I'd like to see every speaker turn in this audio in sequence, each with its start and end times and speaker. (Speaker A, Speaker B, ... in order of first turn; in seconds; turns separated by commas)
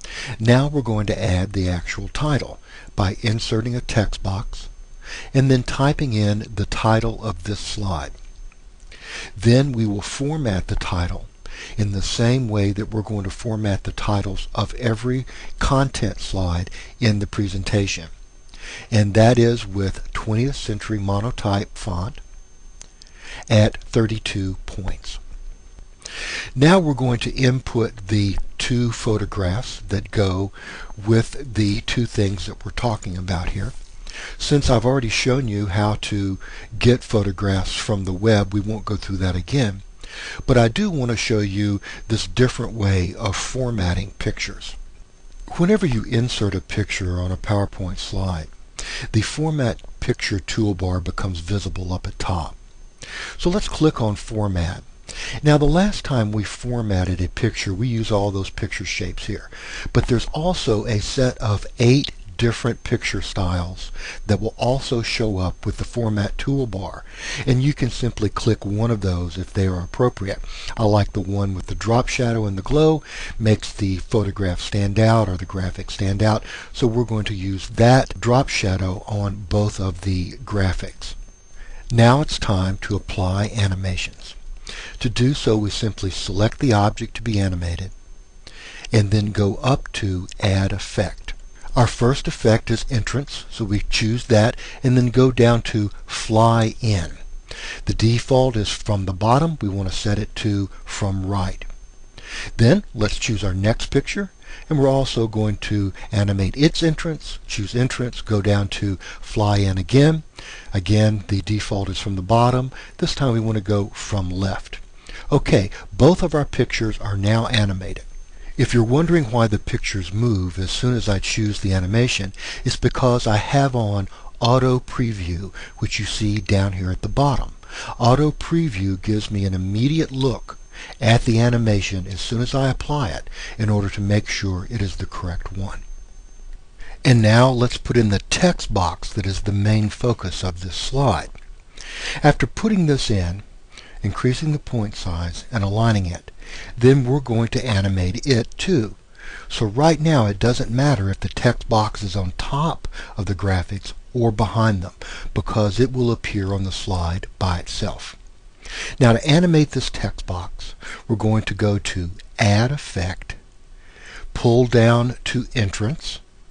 Speaker A: 0.4-4.7, Speaker A: 5.3-8.1, Speaker A: 9.4-18.1, Speaker A: 18.9-22.2, Speaker A: 23.5-25.2, Speaker A: 26.6-33.7, Speaker A: 34.4-39.8, Speaker A: 40.5-44.8, Speaker A: 45.5-48.5, Speaker A: 49.1-52.6, Speaker A: 53.3-54.9, Speaker A: 55.4-81.2, Speaker A: 81.9-84.4, Speaker A: 85.0-87.9, Speaker A: 88.9-97.2, Speaker A: 97.8-101.7, Speaker A: 102.5-118.0, Speaker A: 118.6-135.8, Speaker A: 137.0-141.3, Speaker A: 142.2-143.4, Speaker A: 144.0-158.2, Speaker A: 159.0-163.4, Speaker A: 164.3-166.2